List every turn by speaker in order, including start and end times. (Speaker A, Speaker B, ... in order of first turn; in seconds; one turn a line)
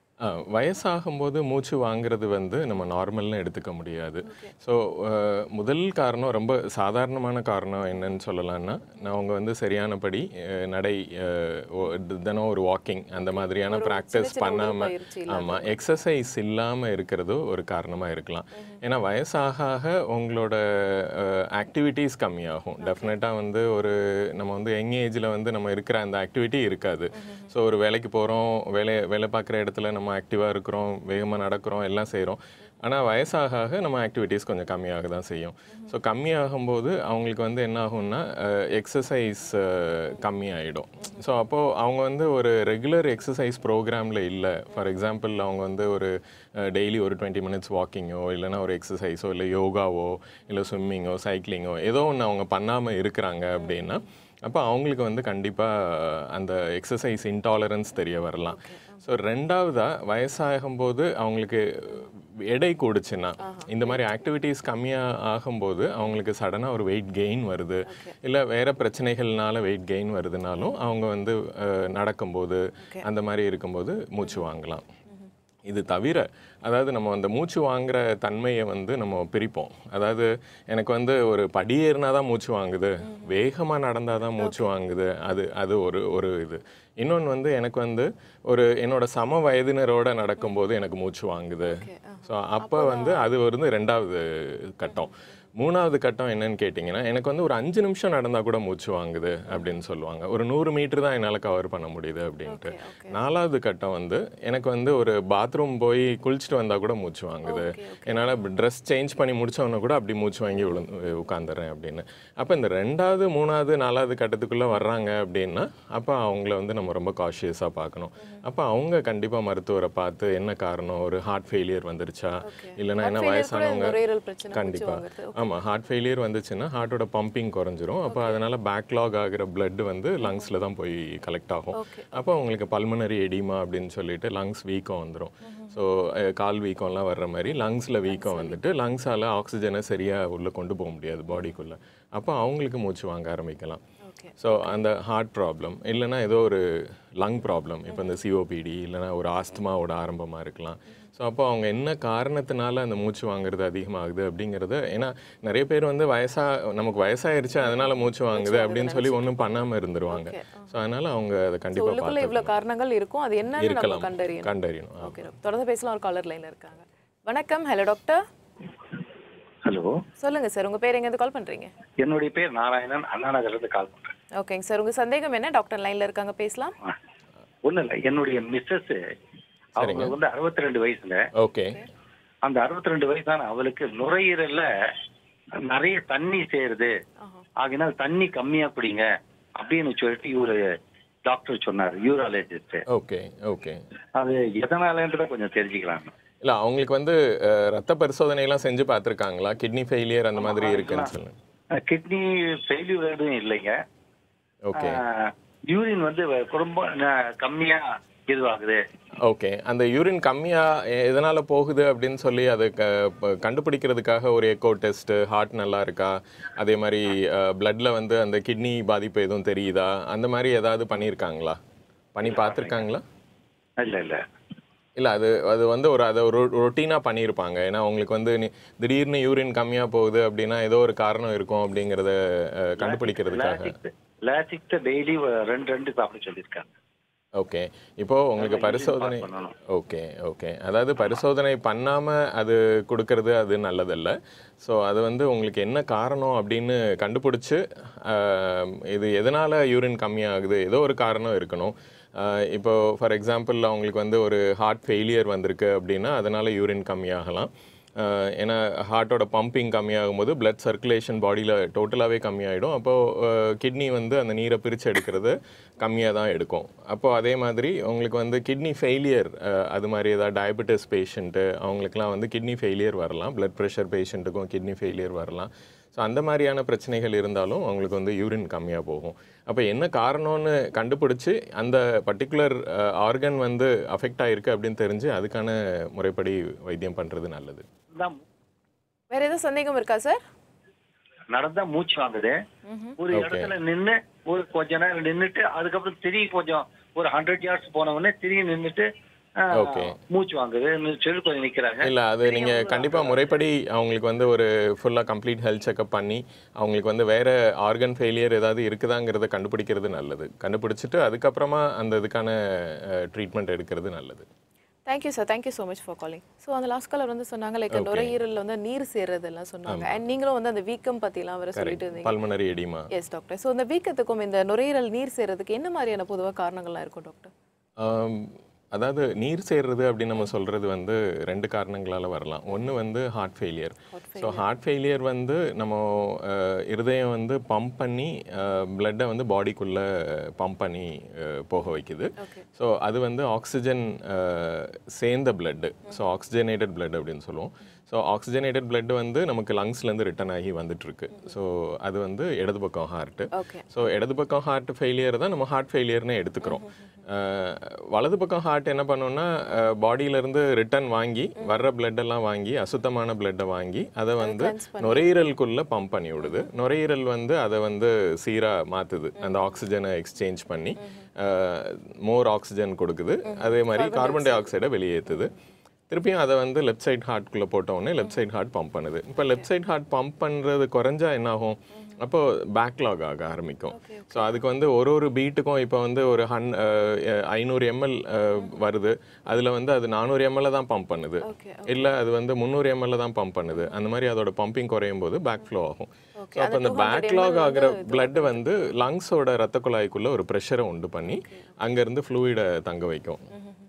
Speaker A: 0.2-74.8
Speaker B: 4.2-4.5
Speaker B: 13.7-15.7
Speaker B: 22.8-23.1
Speaker B: 27.2-27.5
Speaker B: 58.5-59.1
Speaker B: 63.4-64.0
Speaker B: 67.8-68.1
Speaker B: 72.8-73.0
Speaker A: 75.7-124.0
Speaker B: 83.0-83.3
Speaker B: 84.4-84.7
Speaker B: 91.6-93.3
Speaker B: 102.5-103.2
Speaker B: 107.5-108.4
Speaker B: 122.4-125.5
Speaker A: 124.5-143.8
Speaker B: 128.1-128.4
Speaker B: 131.7-132.3
Speaker B: 135.4-135.8
Speaker B: 138.1-138.6
Speaker B: 144.0-144.5
Speaker A: 144.4-162.5
Speaker B: 157.6-159.5
Speaker B: 160.1-160.7
Speaker B: 161.7-168.2
Speaker A: 163.6-165.3
Speaker C: 169.6-169.9
Speaker B: 170.2-171.7
Speaker C: 172.0-174.1
Speaker B: 174.4-176.7
Speaker C: 177.6-179.0
Speaker C: 179.8-181.3
Speaker A: 179.8-180.1
Speaker A: 181.4-181.8
Speaker C: 182.4-184.7
Speaker C: 185.6-186.9
Speaker B: 187.2-187.4
Speaker C: 187.6-190.7
Speaker C: 191.3-192.8
Speaker A: 192.9-193.8
Speaker C: 194.2-196.1
Speaker A: 196.4-201.3
Speaker C: 200.3-201.1
Speaker C: 201.7-203.8
Speaker A: 204.6-205.0
Speaker C: 204.8-208.8
Speaker A: 209.2-221.6
Speaker A: 222.1-223.0
Speaker C: 222.2-222.8
Speaker C: 223.8-224.2
Speaker A: 225.0-233.8
Speaker C: 232.8-236.7
Speaker A: 237.3-287.6
Speaker C: 238.4-239.5
Speaker C: 287.9-288.2
Speaker B: 289.1-290.2
Speaker C: 291.3-292.4
Speaker B: 292.7-292.9
Speaker C: 293.0-298.9
Speaker A: 293.1-293.5
Speaker C: 299.4-303.2
Speaker A: 299.5-300.0
Speaker A: 301.8-314.2
Speaker B: 314.9-322.1
Speaker A: 317.7-318.1
Speaker A: 319.7-320.0
Speaker A: 321.5-322.9
Speaker B: 322.9-327.3
Speaker A: 327.8-375.3
Speaker B: 333.9-334.4
Speaker B: 342.2-342.4
Speaker B: 353.3-353.7
Speaker B: 356.4-356.7
Speaker B: 364.2-365.1
Speaker B: 373.2-374.5
Speaker A: 375.9-403.3
Speaker B: 383.7-384.4
Speaker B: 391.2-391.9
Speaker B: 396.2-398.5
Speaker B: 401.1-401.6